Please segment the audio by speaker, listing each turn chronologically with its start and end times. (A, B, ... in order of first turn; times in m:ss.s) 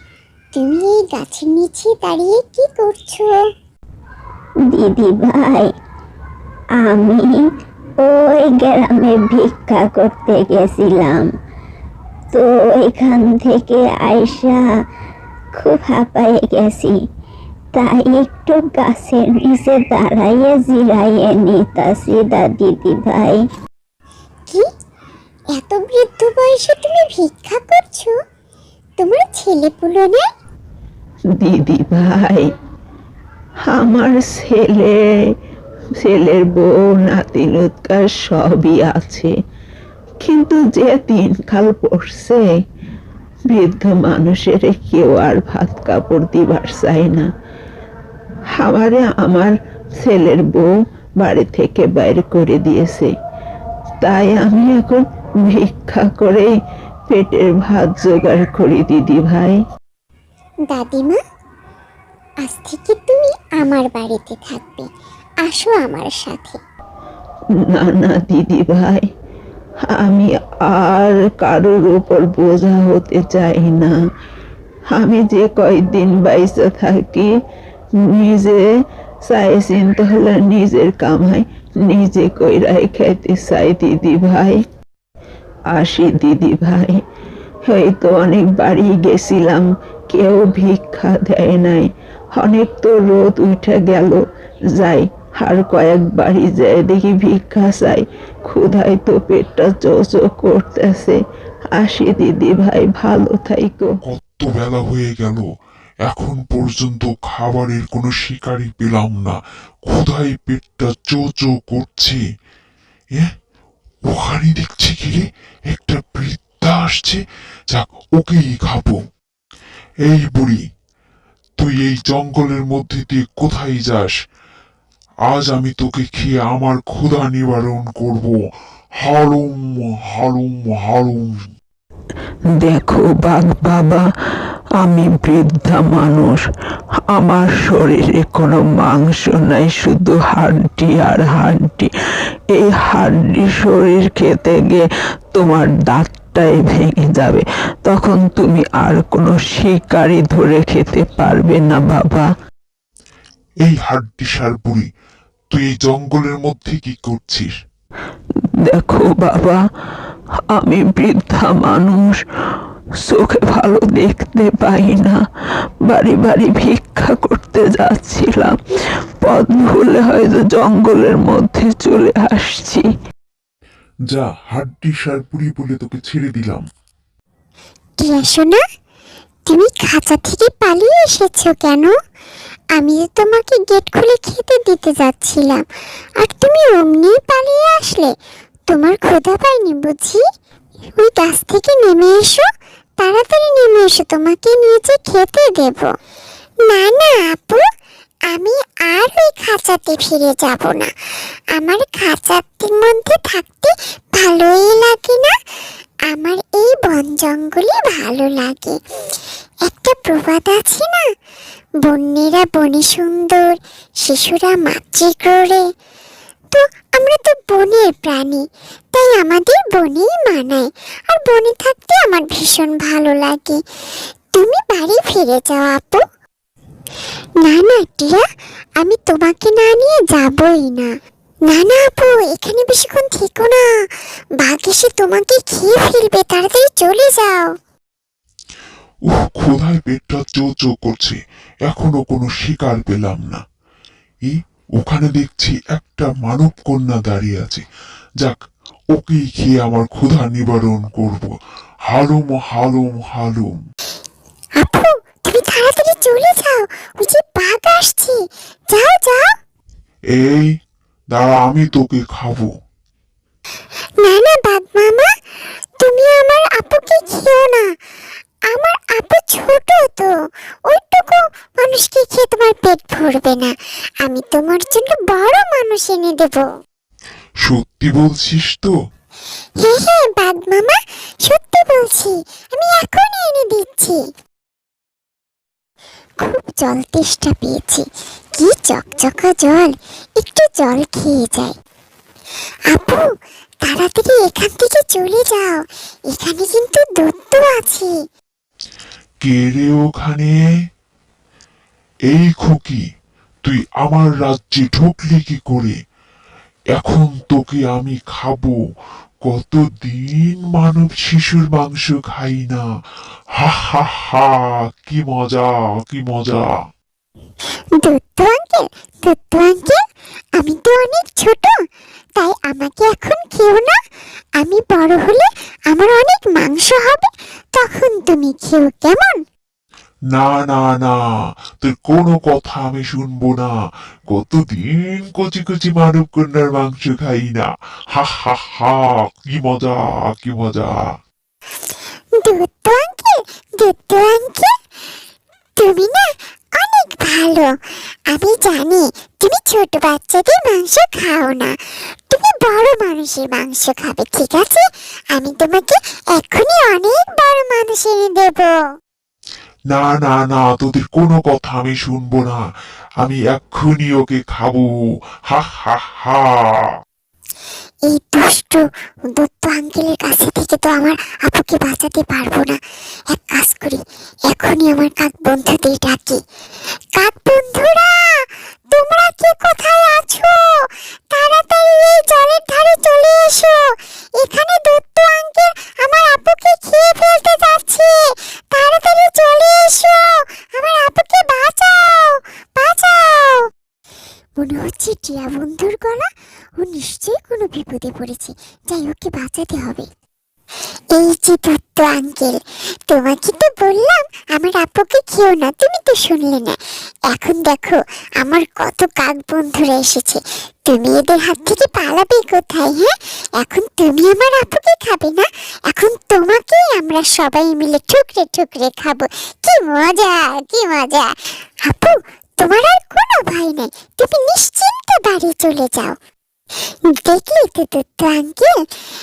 0:00.5-0:03.4 A
0:04.7-0:05.7 B
0:06.7-0:07.4 B
0:08.0-0:11.3 B
0:12.3-0:14.7 B
0:15.6-0:17.0 B
0:17.7-0:23.4 B
0:25.5-0:28.2 A
0:29.0-0:30.2 A
0:31.4-0:32.5 C
0:33.7-0:35.0 C
0:36.0-0:39.3 C
0:40.2-0:42.5 C
0:43.5-0:47.3 C
0:48.6-0:50.7 C
0:51.2-0:53.1 C
0:54.0-0:56.5 C
0:57.1-0:59.6 C
1:00.6-1:01.2 A
1:02.4-1:04.9 A
1:05.4-1:06.6 A
1:07.7-1:09.0 C
1:09.9-1:13.9 C
1:14.9-1:17.3 C
1:18.0-1:18.6 C
1:19.2-1:24.6 C
1:25.7-1:27.0 C
1:27.7-1:34.2 C
1:34.8-1:41.2 C
1:41.7-1:43.9 C
1:44.0-1:45.5 D
1:46.0-1:52.2 D
1:54.1-1:59.0 D
2:00.1-2:00.6 D
2:01.6-2:04.1 D
2:05.3-2:08.3 D
2:09.0-2:11.4 D
2:12.5-2:14.0 C
2:14.8-2:16.4 C
2:17.1-2:21.9 C
2:22.5-2:32.3 C
2:33.6-2:34.9 D
2:35.5-2:37.5 D
2:38.6-2:39.6 C
2:40.5-2:42.2 C
2:43.0-2:45.2 C
2:45.8-2:48.6 C
2:49.2-2:52.8 C
2:54.1-2:56.6 D
2:58.0-2:58.6 A
2:59.5-3:01.9 A
3:02.8-3:05.6 A
3:06.2-3:08.1 A
3:08.7-3:10.2 A
3:11.0-3:12.4 A
3:13.0-3:15.9 A
3:16.7-3:17.6 A
3:18.3-3:20.9 A
3:21.5-3:25.4 A
3:26.1-3:28.8 A
3:29.6-3:31.0 A
3:31.8-3:35.6 A
3:36.5-3:43.6 A
3:44.3-3:46.0 A
3:47.4-3:48.2 A
3:48.8-3:50.9 A
3:51.4-3:53.6 A
3:54.4-3:57.5 A
3:59.0-4:03.4 D
4:04.2-4:07.6 D
4:08.9-4:11.3 D
4:11.9-4:13.5 D
4:14.6-4:18.2 A
4:18.7-4:19.2 A
4:20.1-4:20.5 D
4:21.1-4:22.5 D
4:24.0-4:25.1 A
4:25.8-4:27.7 A
4:28.5-4:30.1 A
4:30.7-4:36.5 A
4:37.4-4:38.7 D
4:39.6-4:44.1 A
4:46.2-4:51.5 A
4:52.7-4:53.0 A
4:53.6-4:57.9 A
4:59.2-5:00.3 D
5:02.1-5:02.8 D
5:03.4-5:05.8 D
5:06.7-5:08.6 D
5:09.3-5:12.6 D
5:13.4-5:16.4 D
5:17.8-5:19.8 A
5:20.4-5:21.5 A
5:22.2-5:23.8 A
5:24.4-5:29.2 A
5:30.1-5:33.5 D
5:34.1-5:40.9 D
5:42.2-5:44.5 A
5:45.6-5:47.6 A
5:48.1-5:51.5 A
5:52.1-5:58.5 A
5:59.7-6:02.4 D
6:03.0-6:04.7 D
6:05.3-6:06.7 D
6:07.8-6:08.6 A
6:09.2-6:16.2 A
6:17.0-6:33.5 A
6:34.4-6:39.9 A
6:40.9-6:46.6 A
6:47.1-7:06.0 A
7:06.9-7:08.5 A